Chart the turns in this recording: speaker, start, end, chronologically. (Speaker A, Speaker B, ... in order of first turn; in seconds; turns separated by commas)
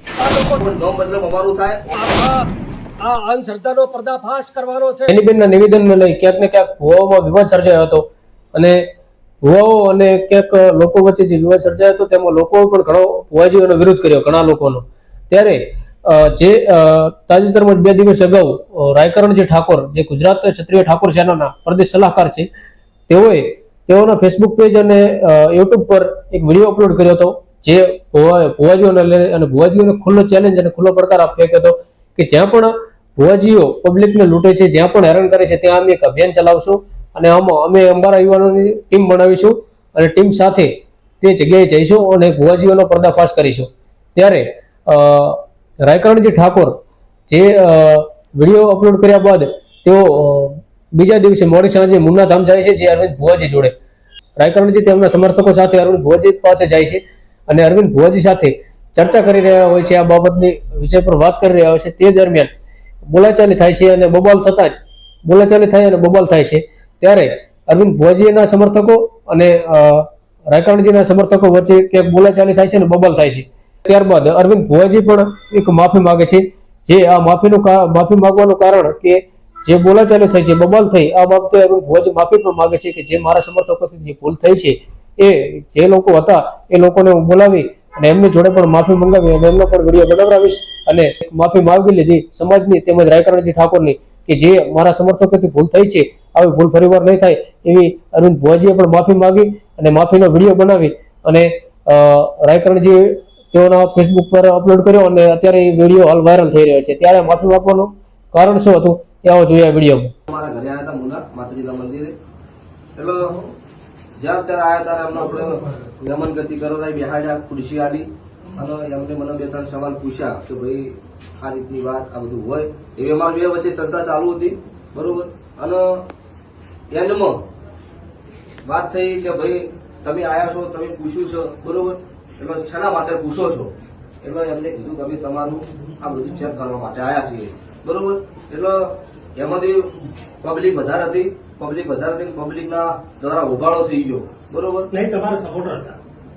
Speaker A: 0.2-0.6, Speaker B: 0.6-2.2, Speaker A: 2.0-2.5, Speaker A: 3.0-5.1, Speaker C: 5.1-8.8, Speaker C: 9.4-22.5, Speaker C: 23.1-46.8, Speaker C: 47.3-53.7, Speaker C: 54.4-62.5, Speaker C: 63.1-110.1, Speaker B: 110.3-112.2, Speaker B: 113.0-113.4, Speaker B: 114.2-126.0, Speaker B: 126.9-127.4, Speaker B: 128.7-133.7, Speaker B: 134.2-144.9, Speaker A: 144.9-146.0